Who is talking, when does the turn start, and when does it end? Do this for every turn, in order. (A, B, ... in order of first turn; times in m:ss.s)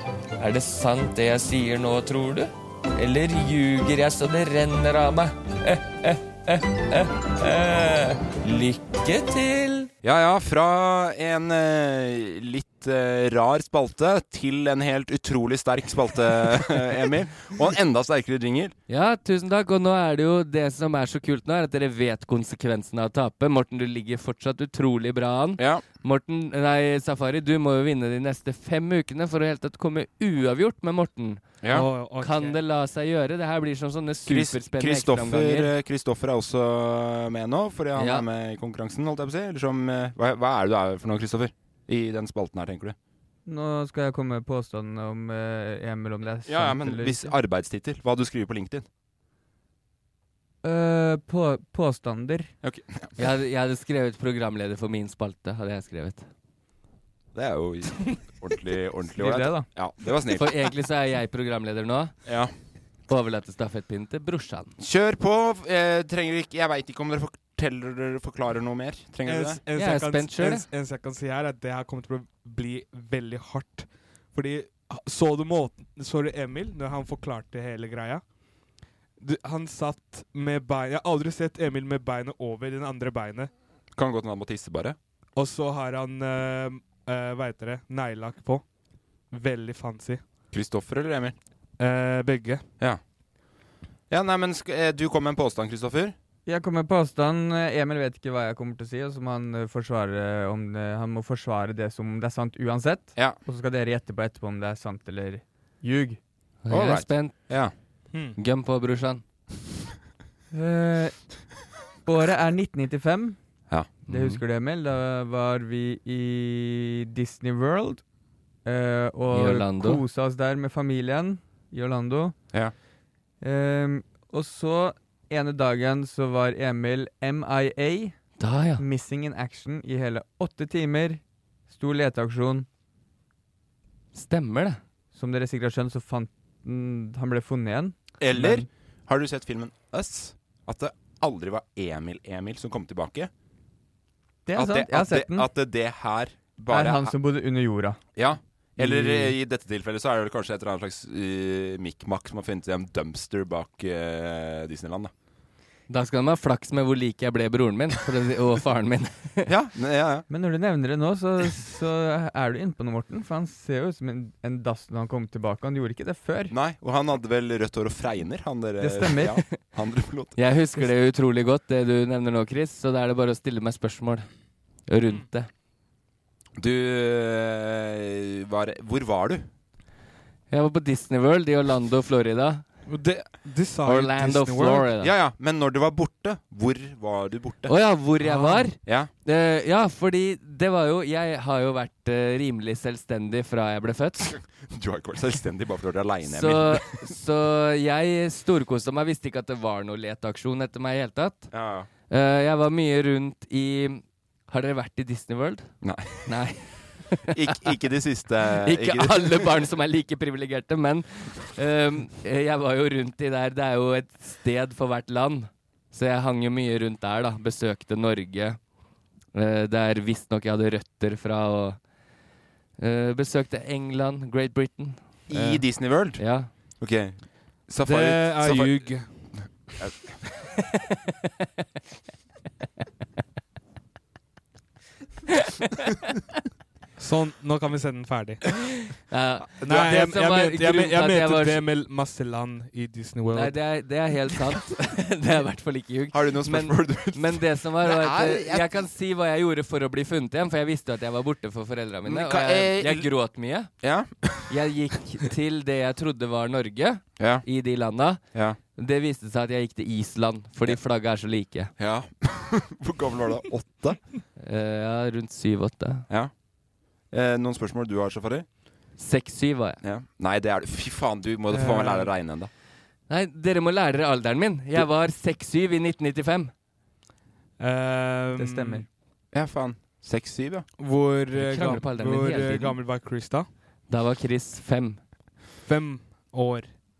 0:00.4-0:09.9 A
0:10.0-0:18.7 B
0:18.9-0:31.6 C
0:25.6-0:25.8 B
0:31.6-0:31.9 B
0:31.7-0:32.6 D
0:32.2-0:35.7 C
0:34.3-0:43.0 B
0:38.0-0:38.2 C
0:43.5-0:47.4 E
0:46.5-0:48.8 B
0:50.6-0:52.5 E
0:52.6-0:53.1 B
0:53.2-0:56.3 C
0:57.4-1:00.7 B
0:59.2-0:59.7 E
1:00.3-1:02.1 C
1:02.3-1:02.5 B
1:03.1-1:04.7 C
1:04.8-1:09.6 B
1:09.3-1:18.2 D
1:09.7-1:10.7 C
1:19.2-1:23.5 D
1:24.0-1:25.0 B
1:25.4-1:28.6 D
1:29.3-1:30.2 D
1:30.5-1:31.4 B
1:31.8-1:32.6 D
1:34.1-1:36.2 B
1:36.5-1:46.2 E
1:46.6-1:47.6 C
1:46.7-1:47.7 B
1:48.1-1:48.4 D
1:48.4-1:49.2 C
1:50.5-1:51.3 E
1:52.0-1:53.4 E
1:54.1-1:58.0 E
1:54.1-1:54.4 C
1:58.6-2:02.4 E
1:59.3-2:00.0 C
2:03.4-2:08.2 E
2:08.4-2:08.8 C
2:08.8-2:12.7 E
2:14.1-2:14.8 C
2:15.1-2:18.7 E
2:18.2-2:23.3 B
2:24.5-2:25.5 E
2:24.5-2:27.1 B
2:26.7-2:28.0 E
2:28.2-2:35.1 B
2:28.8-2:29.4 E
2:35.9-2:39.5 C
2:39.4-2:40.3 B
2:40.3-2:46.5 E
2:46.5-2:50.4 B
2:48.8-2:49.4 E
2:50.4-2:54.3 C
2:54.9-2:55.5 C
2:56.6-2:59.5 B
3:00.5-3:02.6 C
3:02.9-3:04.9 D
3:03.8-3:05.1 C
3:05.0-3:07.8 B
3:07.7-3:14.4 C
3:08.2-3:08.7 D
3:08.8-3:09.1 B
3:14.3-3:17.0 B
3:16.2-3:21.5 C
3:21.5-3:21.9 B
3:22.1-3:25.7 C
3:25.8-3:26.3 B
3:26.3-3:27.7 C
3:27.3-3:29.5 B
3:28.6-3:38.6 C
3:39.3-3:41.8 C
3:42.8-3:46.5 C
3:45.3-3:50.2 B
3:47.8-3:49.3 D
3:57.0-3:58.4 D
3:59.1-4:01.6 C
3:59.6-4:03.6 D
4:03.3-4:13.8 C
4:06.1-4:08.9 B
4:12.1-4:13.1 B
4:13.8-4:14.5 B
4:14.5-4:18.2 C
4:17.2-4:17.5 B
4:18.8-4:21.7 C
4:21.8-4:24.0 B
4:24.4-4:26.1 C
4:27.1-4:28.5 B
4:29.0-4:29.8 C
4:29.8-4:32.5 B
4:31.5-4:32.1 D
4:33.1-4:36.5 C
4:37.6-4:38.8 D
4:38.4-4:38.9 E
4:39.3-4:40.7 B
4:40.8-4:43.5 D
4:41.3-4:42.8 C
4:43.9-4:45.0 C
4:45.6-4:46.7 D